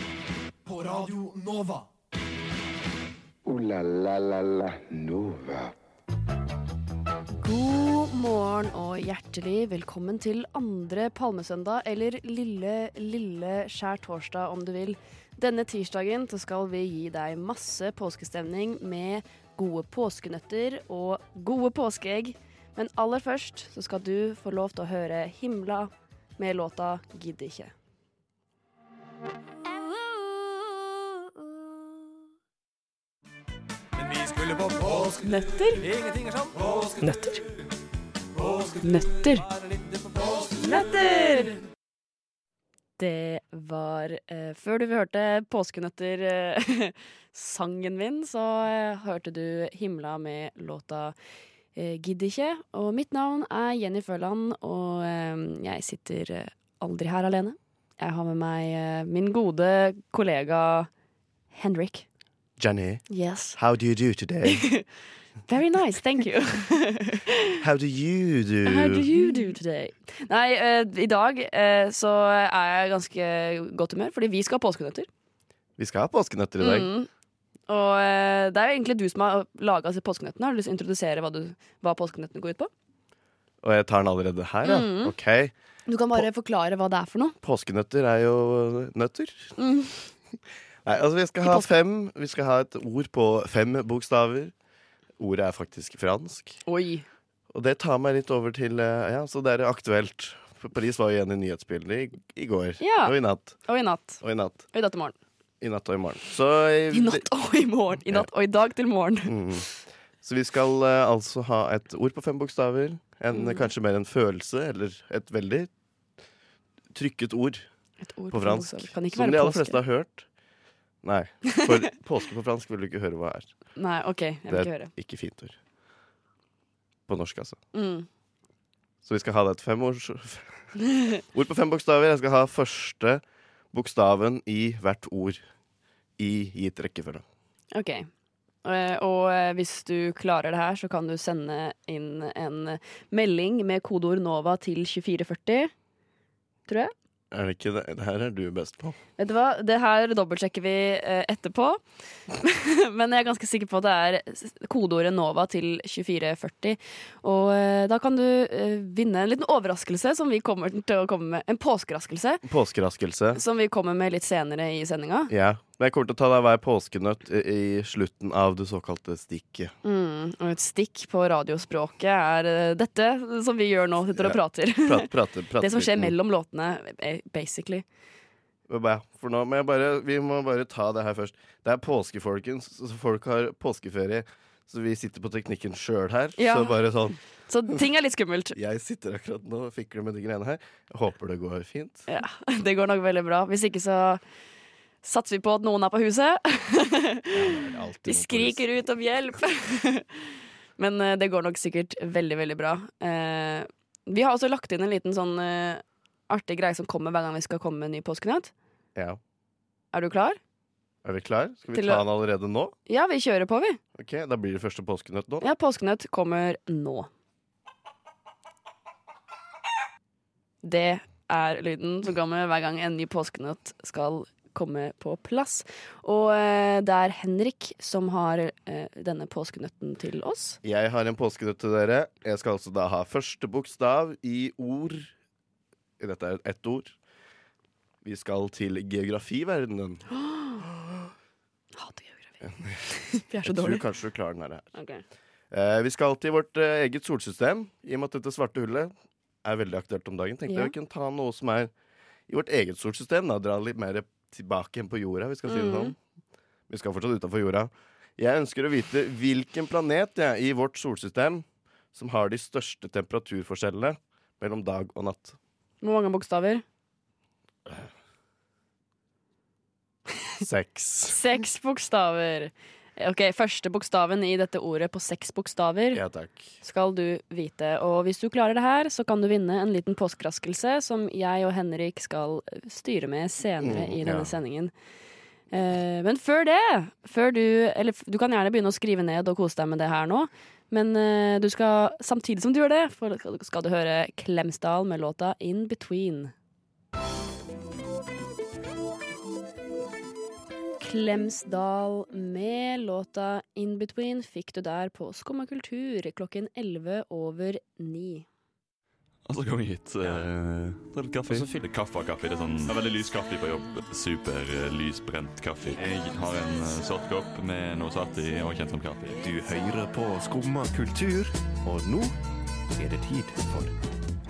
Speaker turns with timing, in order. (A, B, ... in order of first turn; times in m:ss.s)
0:00.6-0:01.8 A
0:03.4-0:05.7 B
0:07.4-0:27.7 C
0:34.0-0:35.2 A
0:35.2-0:35.9 C
0:35.8-0:37.0 A
0:38.8-0:39.5 C
0:39.6-0:40.4 A
0:40.5-0:41.6 C
0:43.0-0:51.1 C
0:51.8-1:00.9 C
1:01.5-1:02.1 C
1:02.6-1:04.7 D
1:03.1-1:03.6 C
1:04.5-1:04.8 C
1:05.5-1:07.6 C
1:07.6-1:09.1 D
1:08.7-1:15.1 C
1:15.8-1:16.9 D
1:16.6-1:17.1 C
1:17.7-1:22.7 C
1:23.6-1:25.5 D
1:24.6-1:25.1 C
1:25.9-1:27.4 C
1:27.4-1:29.5 D
1:29.6-1:30.0 C
1:30.8-1:34.5 D
1:35.2-1:36.6 D
1:36.7-1:37.0 C
1:37.5-1:43.6 D
1:42.8-1:44.2 C
1:44.2-1:44.6 D
1:44.7-1:45.1 C
1:45.6-1:47.3 D
1:46.9-1:49.6 C
1:49.2-1:49.7 D
1:50.2-1:55.7 D
1:53.3-1:53.7 C
1:56.9-1:57.7 D
1:58.0-1:59.8 C
1:58.3-2:00.2 D
2:01.0-2:03.5 D
2:03.8-2:04.9 C
2:04.5-2:05.6 D
2:07.1-2:07.6 D
2:07.7-2:08.1 C
2:09.0-2:15.4 D
2:16.2-2:17.2 D
2:17.7-2:18.1 C
2:18.6-2:25.7 C
2:26.7-2:26.9 C
2:27.3-2:29.0 D
2:29.2-2:31.8 C
2:32.3-2:42.4 C
2:42.4-2:43.4 D
2:43.3-2:45.3 C
2:45.3-2:49.7 D
2:49.8-2:57.8 C
2:54.2-2:56.1 D
2:58.7-3:07.2 D
3:06.4-3:06.8 C
3:07.5-3:08.6 C
3:08.6-3:12.1 D
3:12.1-3:14.2 C
3:15.0-3:20.3 C
3:17.3-3:18.6 D
3:20.8-3:28.5 C
3:29.0-3:29.2 D
3:29.9-3:30.4 C
3:31.0-3:32.8 D
3:31.7-3:32.0 C
3:32.9-3:33.8 C
3:34.0-3:35.5 D
3:35.4-3:37.1 C
3:40.6-3:50.6 C
3:50.6-3:55.1 D
3:56.0-3:57.0 D
3:58.0-4:00.0 D
4:00.1-4:00.6 C
4:00.6-4:01.1 D
4:01.8-4:03.8 C
4:02.4-4:02.8 D
4:03.4-4:04.7 D
4:04.7-4:05.0 C
4:05.5-4:08.9 D
4:09.4-4:11.7 D
4:10.5-4:10.7 C
4:12.3-4:16.0 D
4:15.5-4:15.9 C
4:16.7-4:25.4 D
4:25.8-4:26.6 C
4:30.4-4:31.2 D
4:31.1-4:36.0 C
4:35.9-4:36.6 D
4:36.6-4:44.7 C
4:43.6-4:44.3 D
4:45.5-4:56.3 C
5:00.8-5:08.3 C
5:09.2-5:19.2 E
5:19.2-5:22.1 F
5:22.8-5:23.7 F